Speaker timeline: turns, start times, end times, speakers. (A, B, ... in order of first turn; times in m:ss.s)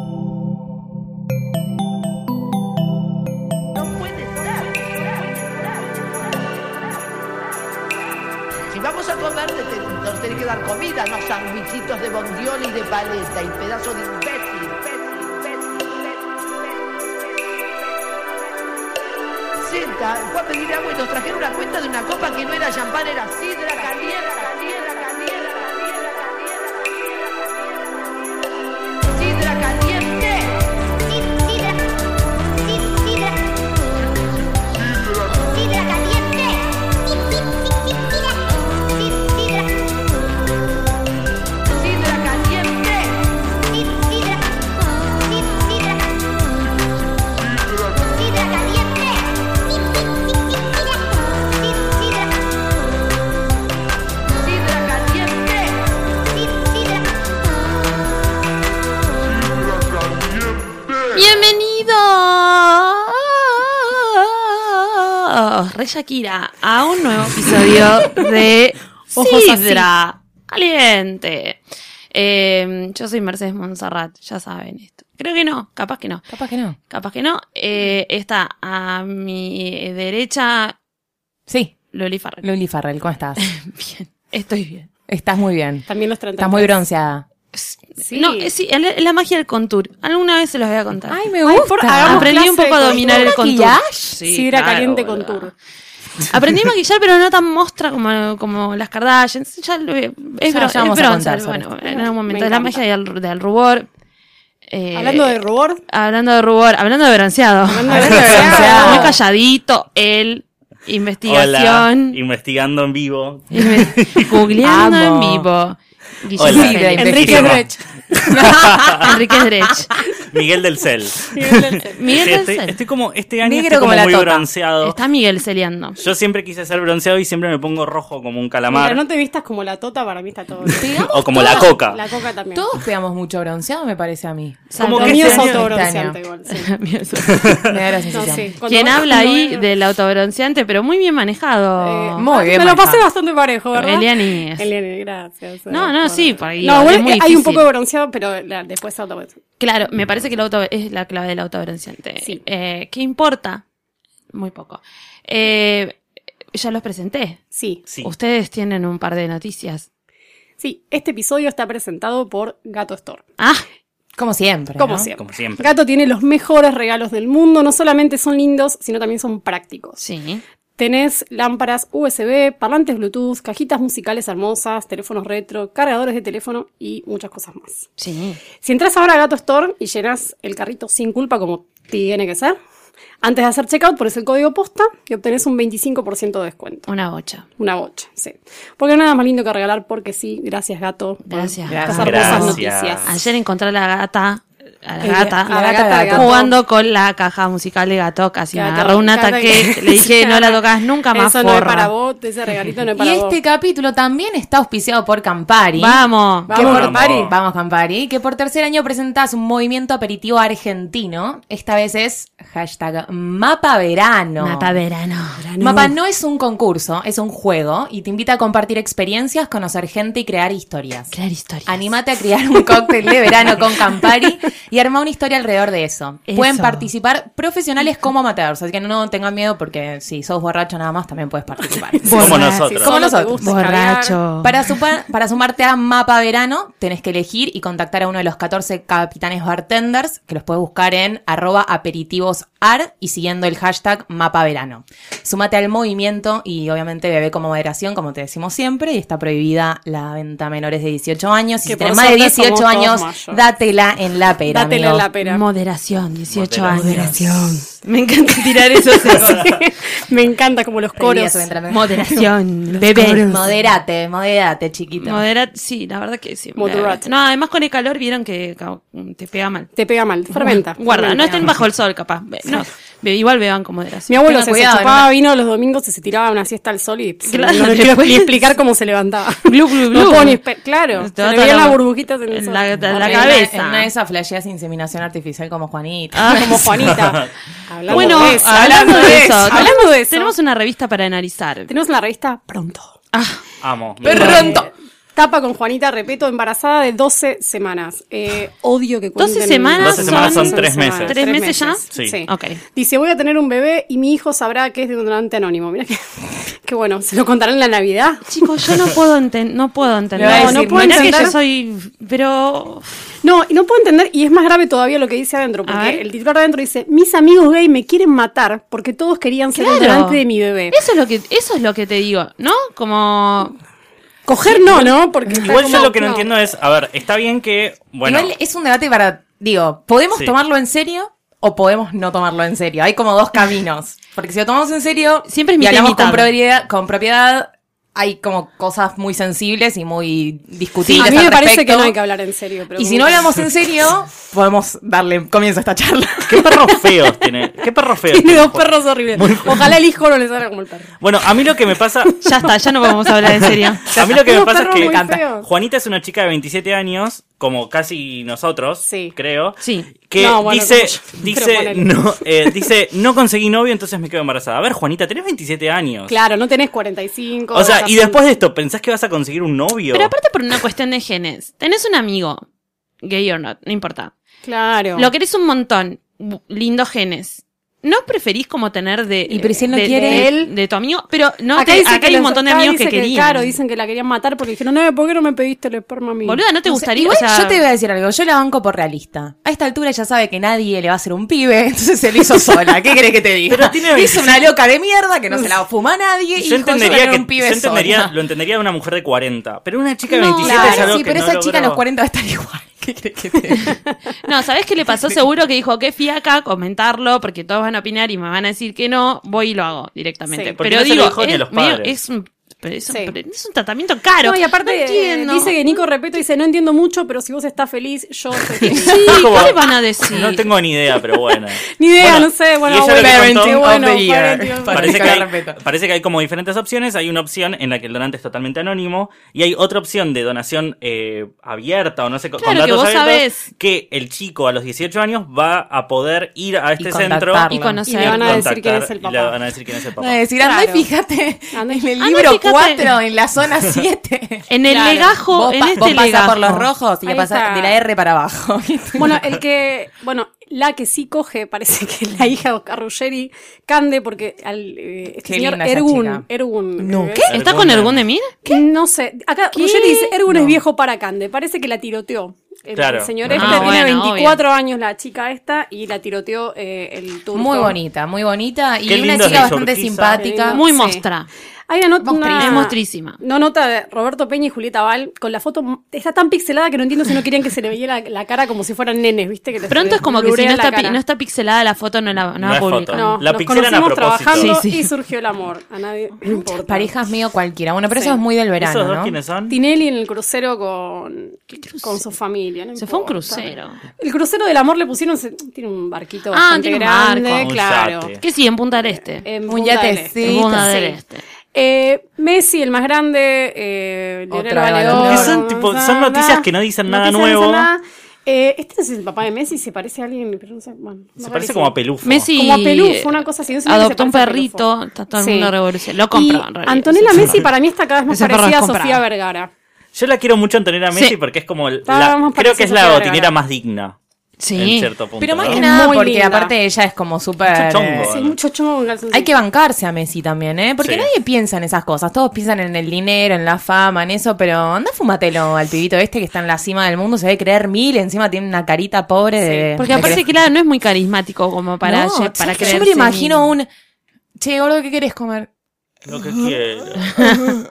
0:03.8-0:07.5 A
0:08.7-0:17.2 A
0:19.6-0:27.1 A
0:29.0-0:31.7 A
0:32.7-0:33.1 A
0:35.3-0:36.6 A
0:41.7-0:44.4 A
0:45.5-0:45.8 A
0:48.0-0:49.1 A
0:54.3-0:55.8 A
0:56.5-0:56.8 A
1:01.1-1:11.6 B
1:09.1-1:09.9 C
1:12.1-1:16.2 B
1:16.3-1:16.8 D
1:16.9-1:20.8 B
1:21.5-1:21.8 D
1:21.9-1:22.4 B
1:22.4-1:23.4 D
1:23.4-1:24.9 B
1:25.1-1:25.9 D
1:25.9-1:26.7 C
1:26.4-1:27.3 D
1:27.5-1:31.2 B
1:28.0-1:28.5 C
1:31.1-1:34.2 D
1:31.4-1:33.4 C
1:32.0-1:35.5 B
1:34.3-1:35.5 C
1:36.2-1:43.9 B
1:40.5-1:41.7 D
1:41.8-1:42.8 C
1:44.7-1:52.2 B
1:45.0-1:45.8 C
1:47.7-1:49.2 C
1:47.9-1:49.2 D
1:51.3-1:54.4 E
1:53.5-1:57.3 B
1:54.6-1:55.5 D
1:56.4-1:57.6 D
1:56.4-1:57.7 E
1:57.0-1:58.3 C
1:58.3-1:59.2 D
1:58.4-1:59.1 E
1:59.0-1:59.9 B
2:00.3-2:05.0 E
2:01.3-2:02.2 C
2:02.0-2:02.8 B
2:03.4-2:04.5 D
2:04.8-2:06.0 B
2:06.0-2:09.0 E
2:08.7-2:12.7 C
2:10.7-2:11.8 D
2:11.1-2:12.0 E
2:12.5-2:16.2 D
2:14.7-2:15.5 B
2:14.8-2:15.8 E
2:15.0-2:16.7 C
2:16.6-2:17.6 B
2:17.3-2:17.8 E
2:17.6-2:18.5 D
2:18.1-2:19.7 C
2:18.6-2:22.3 B
2:21.8-2:29.4 C
2:22.2-2:23.0 D
2:23.7-2:24.7 B
2:25.7-2:27.7 B
2:29.6-2:33.6 B
2:34.3-2:36.0 B
2:36.5-2:37.4 B
2:37.5-2:37.8 C
2:38.0-2:39.9 B
2:40.6-2:43.2 C
2:43.4-2:43.6 B
2:44.2-2:45.1 D
2:44.8-2:50.0 C
2:45.2-2:45.7 E
2:50.0-2:50.4 B
2:50.8-2:57.9 C
2:58.0-2:58.4 B
2:58.6-3:02.6 C
3:03.2-3:06.9 C
3:06.9-3:07.5 B
3:07.6-3:13.1 C
3:11.3-3:21.9 B
3:11.7-3:12.6 D
3:12.0-3:13.1 E
3:15.0-3:16.4 D
3:15.1-3:16.6 C
3:18.5-3:20.6 C
3:21.1-3:23.4 C
3:23.0-3:34.8 D
3:25.8-3:26.6 B
3:26.5-3:27.3 C
3:26.5-3:27.4 E
3:34.4-3:35.9 B
3:35.6-3:41.1 D
3:41.1-3:41.8 B
3:41.7-3:53.6 D
3:46.3-3:46.9 B
3:51.8-3:52.2 C
3:52.0-3:52.7 B
3:52.2-3:53.0 E
3:52.8-3:54.2 C
3:53.4-3:54.7 B
3:54.4-4:15.1 D
4:11.6-4:13.4 C
4:14.5-4:15.4 C
4:15.2-4:19.5 B
4:16.3-4:17.2 E
4:19.0-4:21.5 C
4:21.0-4:22.3 D
4:21.7-4:23.4 B
4:22.9-4:25.2 D
4:25.0-4:29.7 B
4:26.6-4:27.1 C
4:29.8-4:31.5 C
4:30.3-4:34.1 B
4:34.1-4:43.4 C
4:34.3-4:35.1 D
4:37.3-4:38.4 B
4:39.5-4:40.4 B
4:41.0-4:43.9 B
4:43.0-4:47.0 D
4:46.1-4:46.9 B
4:46.3-4:50.4 C
4:47.0-4:47.2 E
4:47.9-4:48.2 E
4:47.9-4:51.7 B
4:48.0-4:49.7 D
4:51.7-4:52.9 C
4:53.1-4:53.4 B
4:53.6-4:54.6 E
4:54.0-5:08.3 C
4:54.0-4:54.7 D
4:54.1-4:54.6 B
4:59.2-5:02.6 B
4:59.8-5:01.2 E
5:01.9-5:02.2 E
5:08.3-5:12.9 B
5:10.2-5:11.3 D
5:10.2-5:11.4 C
5:13.2-5:20.8 C
5:15.7-5:16.0 B
5:19.5-5:23.6 B
5:24.3-5:26.3 C
5:24.4-5:25.0 B
5:25.4-5:28.3 E
5:28.0-5:42.0 D
5:35.3-5:36.3 B
5:40.9-5:43.2 C
5:42.7-5:46.5 D
5:46.2-5:49.8 E
5:48.1-5:51.0 C
5:51.0-5:52.2 E
5:52.2-5:53.0 C
5:52.2-5:53.9 B
5:53.9-6:06.2 E
5:53.9-5:55.2 D
5:54.2-5:55.5 C
5:58.8-5:59.1 C
5:59.6-5:59.9 B
6:00.2-6:02.0 C
6:06.1-6:08.2 C
6:07.5-6:10.1 E
6:09.9-6:12.4 B
6:13.0-6:14.1 B
6:14.4-6:15.1 C
6:15.0-6:23.6 B
6:19.3-6:20.3 D
6:20.0-6:20.5 C
6:21.6-6:26.4 C
6:26.2-6:27.6 B
6:26.6-6:38.1 D
6:33.5-6:34.5 E
6:36.4-6:41.8 E
6:40.1-6:40.9 B
6:40.4-6:43.8 D
6:44.2-6:55.8 B
6:50.6-6:52.0 E
6:52.9-6:53.1 C
6:54.2-6:59.2 C
6:58.7-7:00.5 B
6:58.9-7:03.6 E
7:01.0-7:01.2 C
7:01.8-7:05.2 C
7:03.0-7:05.6 D
7:04.7-7:20.2 E
7:12.4-7:13.5 B
7:16.8-7:17.8 D
7:17.5-7:18.5 B
7:17.9-7:19.4 C
7:20.0-7:29.2 D
7:20.4-7:20.8 C
7:21.5-7:21.9 C
7:22.0-7:22.9 B
7:24.5-7:26.7 B
7:24.7-7:25.0 C
7:27.0-7:27.8 C
7:29.0-7:37.3 C
7:35.2-7:36.3 D
7:36.8-7:37.4 D
7:37.2-7:38.0 E
7:37.3-7:38.6 B
7:38.4-7:47.8 C
7:39.5-7:40.2 B
7:42.8-7:43.8 E
7:43.3-7:44.4 B
7:47.3-7:50.6 D
7:48.9-7:50.2 E
7:50.2-7:51.0 C
7:50.5-7:51.3 B
7:51.7-8:01.0 C
7:52.0-7:52.7 D
7:52.4-7:53.2 B
7:59.7-8:03.2 B
8:02.4-8:04.6 E
8:02.9-8:06.9 C
8:04.4-8:04.9 B
8:06.2-8:09.2 D
8:07.9-8:08.2 C
8:08.6-8:09.6 E
8:09.5-8:18.1 C
8:11.5-8:12.0 B
8:12.8-8:13.8 B
8:16.3-8:17.5 B
8:17.4-8:18.2 E
8:18.2-8:19.3 B
8:19.2-8:21.0 C
8:19.5-8:20.7 D
8:20.2-8:21.2 B
8:21.5-8:31.7 C
8:24.3-8:25.4 D
8:24.9-8:27.7 E
8:31.2-8:32.3 E
8:32.0-8:37.4 B
8:32.3-8:34.6 C
8:35.2-8:35.5 C
8:36.1-8:39.5 C
8:38.1-8:39.0 B
8:39.9-8:44.0 E
8:41.9-8:43.3 C
8:44.4-8:44.9 B
8:44.6-8:45.6 E
8:45.2-8:48.1 D
8:45.5-8:46.5 C
8:47.5-8:48.4 E
8:48.1-8:49.3 C
8:49.1-9:00.2 D
8:50.8-8:51.1 E
8:59.4-8:59.7 C
8:59.8-9:03.5 B
9:01.8-9:03.7 D
9:04.4-9:05.5 D
9:06.1-9:07.1 E
9:07.0-9:07.4 B